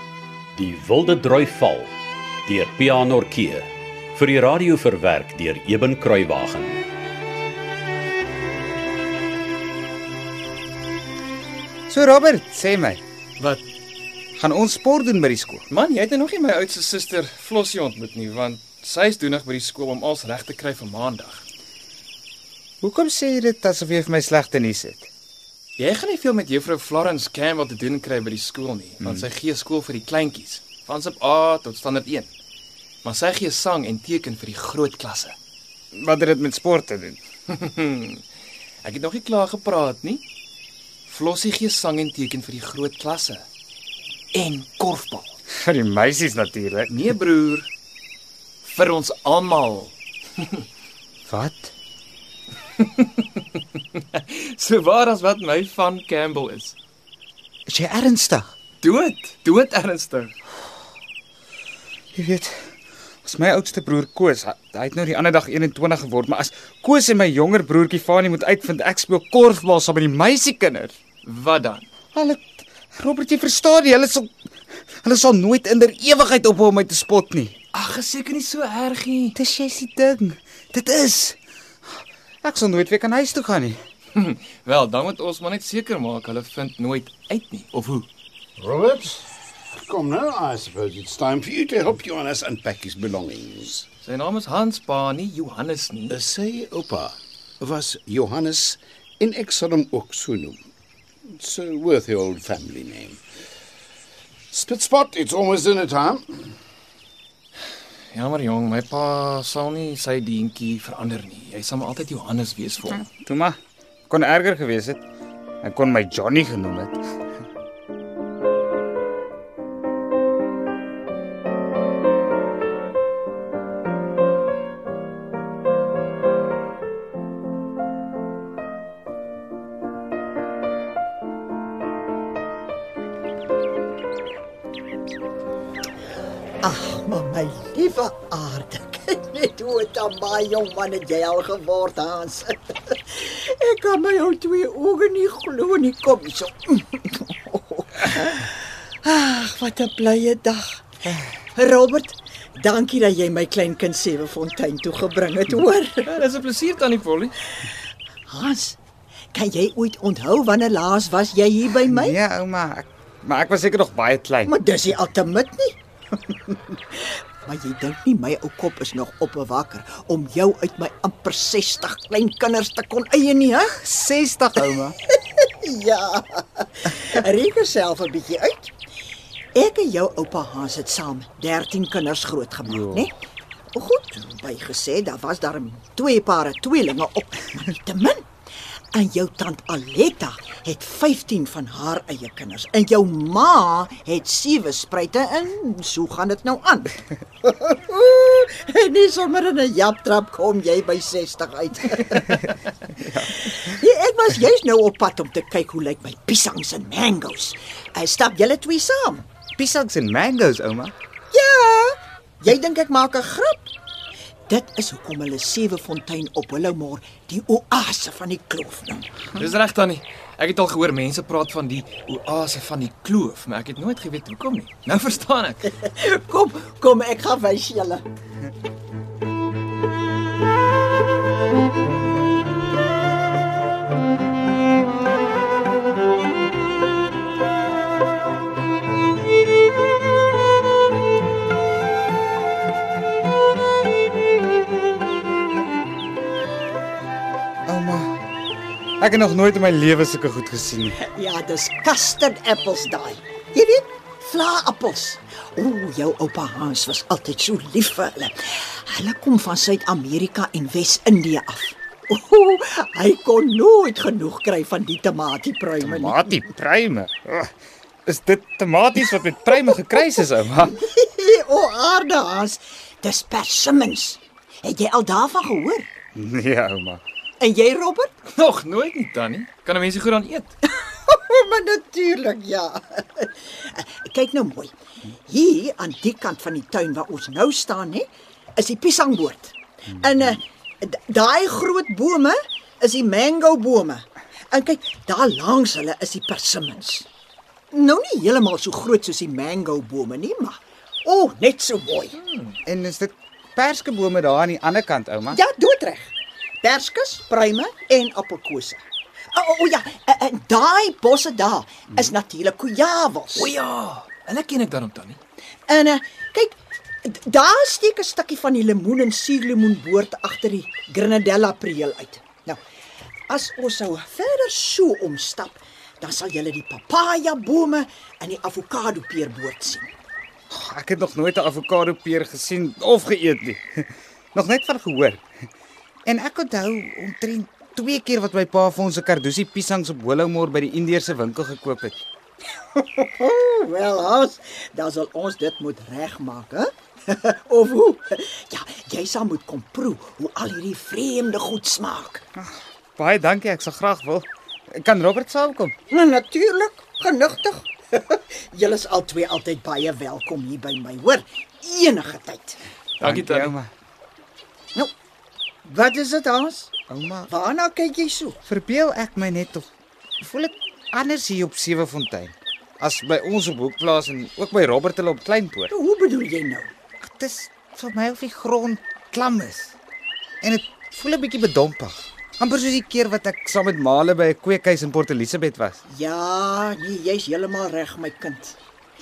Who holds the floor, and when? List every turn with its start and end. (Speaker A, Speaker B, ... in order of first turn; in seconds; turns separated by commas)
Speaker A: 0.6-1.9, Speaker A: 2.5-6.8, Speaker B: 11.9-13.0, Speaker B: 14.3-15.6, Speaker C: 15.7-21.4, Speaker B: 22.8-25.1, Speaker C: 25.8-32.3, Speaker B: 29.0-29.3, Speaker C: 33.0-35.4, Speaker B: 35.9-37.2, Speaker C: 37.5-38.2, Speaker C: 38.8-40.2, Speaker C: 41.1-43.5, Speaker C: 44.3-45.3, Speaker B: 45.6-46.9, Speaker C: 46.9-47.7, Speaker C: 48.6-49.9, Speaker B: 51.3-51.7, Speaker C: 52.8-53.3, Speaker C: 54.0-56.7, Speaker B: 57.7-58.5, Speaker C: 58.8-60.3, Speaker B: 62.1-62.5, Speaker B: 63.2-70.9, Speaker C: 71.2-71.8, Speaker B: 72.1-74.3, Speaker B: 75.0-77.5, Speaker C: 77.7-79.3, Speaker B: 79.3-81.4, Speaker B: 82.4-83.8, Speaker C: 84.1-88.1, Speaker D: 88.6-89.3, Speaker D: 89.8-93.8, Speaker C: 94.0-96.2, Speaker D: 96.1-100.6, Speaker D: 101.3-103.2, Speaker D: 104.5-106.5, Speaker C: 108.1-113.0, Speaker B: 112.9-113.6, Speaker B: 114.1-115.0, Speaker B: 115.6-117.0, Speaker E: 136.6-150.8, Speaker E: 151.5-156.1, Speaker C: 156.1-157.3, Speaker E: 158.3-158.8, Speaker E: 159.3-162.2, Speaker B: 161.9-164.5, Speaker E: 164.4-165.8, Speaker E: 166.3-173.8, Speaker B: 173.7-174.9, Speaker E: 175.1-178.7, Speaker E: 179.5-183.1, Speaker B: 182.7-183.1, Speaker E: 183.7-188.2, Speaker E: 188.9-202.4, Speaker B: 202.3-203.6, Speaker E: 203.3-209.2, Speaker B: 209.6-210.9, Speaker E: 211.3-213.7, Speaker E: 214.5-219.1, Speaker C: 219.4-225.7, Speaker E: 225.7-228.0, Speaker B: 247.7-248.2, Speaker B: 249.0-251.0, Speaker E: 250.9-266.3, Speaker B: 265.8-267.5, Speaker B: 268.1-270.8, Speaker E: 270.6-275.9, Speaker B: 276.1-277.0, Speaker E: 277.4-278.1, Speaker C: 278.3-280.5, Speaker E: 280.7-284.7, Speaker E: 285.2-297.1, Speaker E: 297.7-302.2, Speaker B: 302.6-305.4, Speaker E: 305.3-308.8, Speaker E: 309.3-313.5, Speaker C: 313.3-315.2, Speaker E: 315.7-322.6, Speaker E: 323.3-329.9, Speaker B: 330.5-335.2, Speaker B: 336.1-342.0, Speaker E: 342.7-352.2, Speaker B: 352.4-354.3, Speaker B: 354.8-355.7, Speaker E: 355.9-362.6, Speaker C: 363.0-363.5, Speaker B: 363.0-363.7, Speaker E: 365.6-366.7, Speaker B: 366.9-367.3, Speaker E: 367.3-368.4, Speaker B: 368.4-369.7, Speaker B: 370.2-375.7, Speaker E: 375.7-376.7, Speaker B: 377.0-379.7, Speaker B: 380.4-385.8, Speaker E: 385.9-388.6